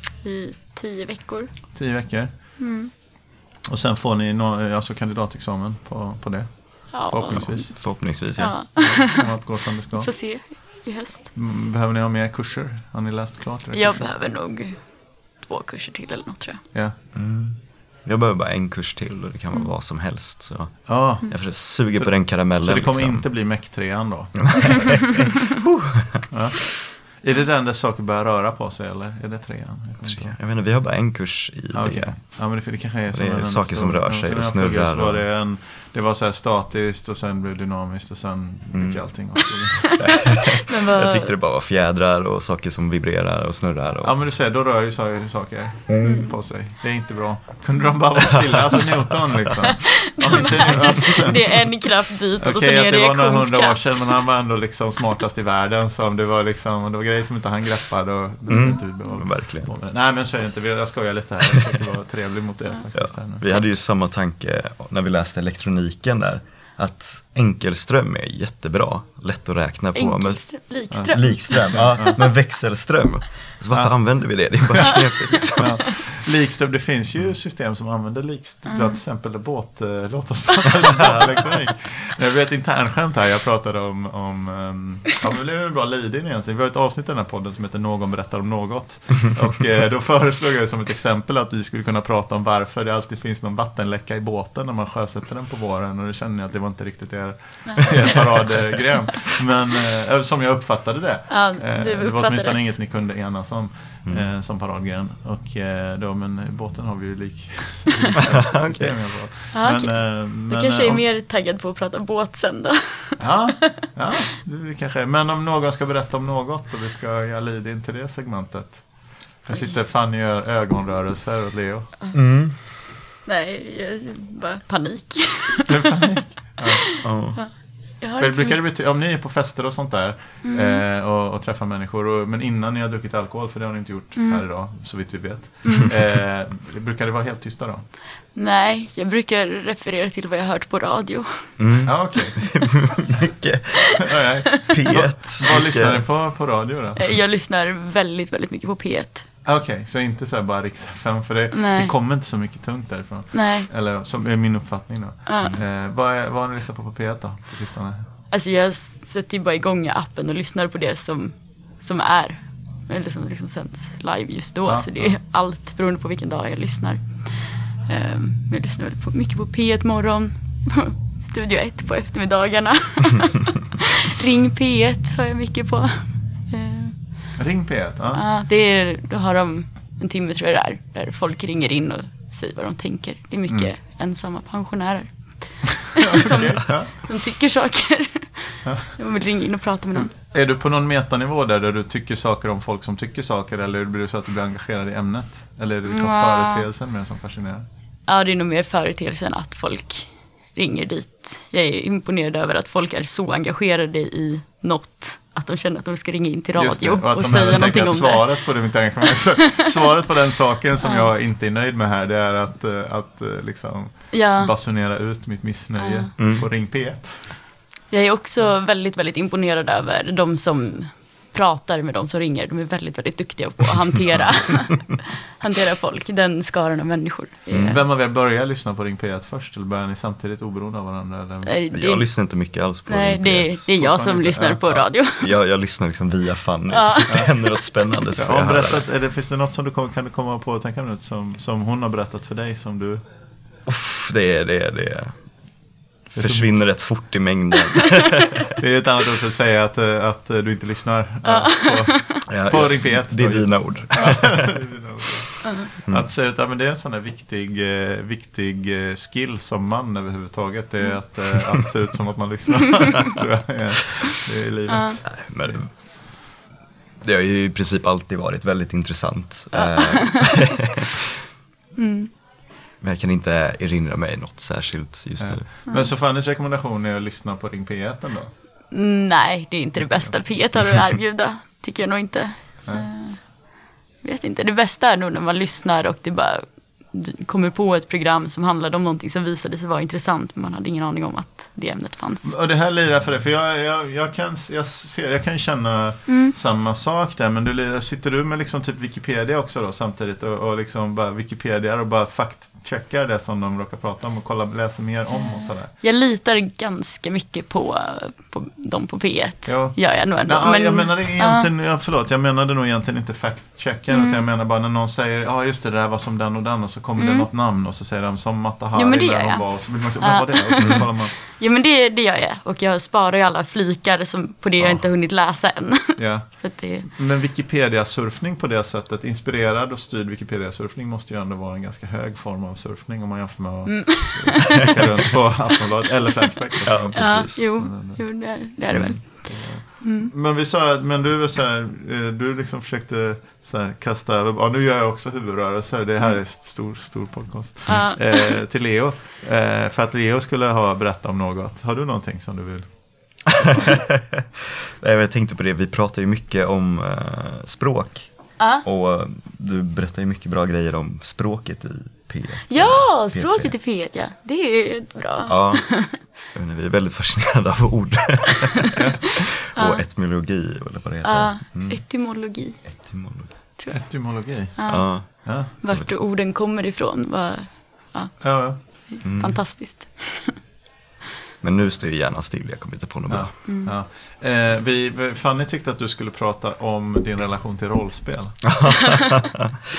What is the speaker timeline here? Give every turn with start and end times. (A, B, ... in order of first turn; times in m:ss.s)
0:00.2-0:01.8 A
0:01.7-0:02.7 B
0:02.6-0:02.9 A
0:03.6-0:08.0 B
0:06.9-0:11.3 A
0:07.4-0:08.5 C
0:08.7-0:10.7 B
0:11.3-0:14.1 B
0:13.7-0:16.6 A
0:17.1-0:23.5 C
0:20.8-0:25.1 B
0:24.6-0:26.3 C
0:26.3-0:30.4 B
0:30.0-0:32.6 C
0:31.7-0:40.1 B
0:33.1-0:35.3 C
0:38.7-0:39.1 C
0:40.0-0:44.2 C
0:40.3-0:41.3 A
0:44.0-0:51.8 B
0:45.9-0:46.2 C
0:46.0-0:46.3 A
0:50.0-0:54.1 A
0:52.4-1:03.5 B
0:58.5-0:59.7 C
0:58.5-0:58.8 A
1:02.9-1:16.0 C
1:09.9-1:12.1 A
1:10.9-1:12.2 B
1:13.7-1:15.0 B
1:15.5-1:51.0 B
1:18.7-1:19.0 A
1:41.3-1:42.7 A
1:48.5-1:49.1 C
1:49.5-1:53.8 A
1:53.2-2:02.0 B
1:59.5-1:59.8 A
2:02.1-2:02.6 C
2:03.2-2:06.0 A
2:05.7-2:07.5 B
2:06.8-2:08.6 A
2:07.0-2:07.5 C
2:08.2-2:17.9 B
2:10.4-2:10.8 A
2:14.2-2:14.4 A
2:15.6-2:15.9 A
2:18.3-2:21.6 A
2:21.6-2:24.0 C
2:21.8-2:22.4 B
2:24.0-2:27.1 B
2:24.7-2:26.1 C
2:27.0-2:29.2 A
2:29.4-2:38.0 B
2:31.5-2:31.9 A
2:33.3-2:33.7 A
2:35.2-2:35.5 A
2:38.3-2:57.4 A
2:44.6-2:45.2 B
2:57.4-2:58.2 B
2:58.1-3:10.1 A
3:06.0-3:06.9 B
3:08.6-3:09.1 B
3:09.9-3:17.7 B
3:15.8-3:16.6 A
3:18.0-3:28.9 A
3:26.6-3:37.4 B
3:30.8-3:31.1 A
3:34.1-3:34.5 A
3:35.8-3:36.1 A
3:36.2-3:36.5 C
3:37.9-3:47.8 A
3:47.5-3:47.8 C
3:47.6-3:51.6 B
3:51.4-3:55.4 A
3:51.7-3:53.7 C
3:53.8-3:54.9 B
3:55.2-3:58.8 C
3:56.7-3:57.5 A
3:57.1-3:57.5 B
3:58.2-4:03.0 B
4:03.6-4:05.5 C
4:06.0-4:08.5 C
4:06.2-4:06.7 B
4:08.6-4:25.7 B
4:11.2-4:12.2 A
4:12.3-4:14.7 C
4:13.9-4:14.5 A
4:15.8-4:16.1 C
4:24.7-4:25.0 A
4:25.0-4:26.2 C
4:27.0-4:30.9 C
4:29.5-4:30.4 A
4:31.8-4:32.1 A
4:32.8-4:35.5 C
4:35.2-4:38.3 B
4:38.7-4:52.3 A
4:39.8-4:40.6 B
4:42.6-4:42.9 B
4:52.2-5:05.7 B
4:56.1-4:56.3 A
5:05.1-5:11.5 A
5:09.4-5:21.2 B
5:13.9-5:14.2 A
5:17.0-5:17.3 A
5:18.7-5:26.9 A
5:24.6-5:25.0 B
5:26.0-5:53.9 B
5:33.6-5:34.8 A
5:36.6-5:37.6 C
5:36.7-5:40.1 A
5:38.7-5:39.0 C
5:47.7-5:48.4 A
5:53.9-6:03.5 C
5:58.4-5:58.6 A
6:02.5-6:06.1 A
6:05.2-6:11.9 C
6:08.7-6:09.1 B
6:09.5-6:09.8 A
6:11.0-6:12.9 A
6:12.6-6:13.4 C
6:13.6-6:20.4 A
6:13.7-6:15.5 B
6:14.7-6:15.9 C
6:18.2-6:19.1 B
6:19.0-6:19.5 C
6:21.4-6:23.4 C
6:23.1-6:29.0 B
6:23.4-6:23.7 A
6:28.4-6:29.5 C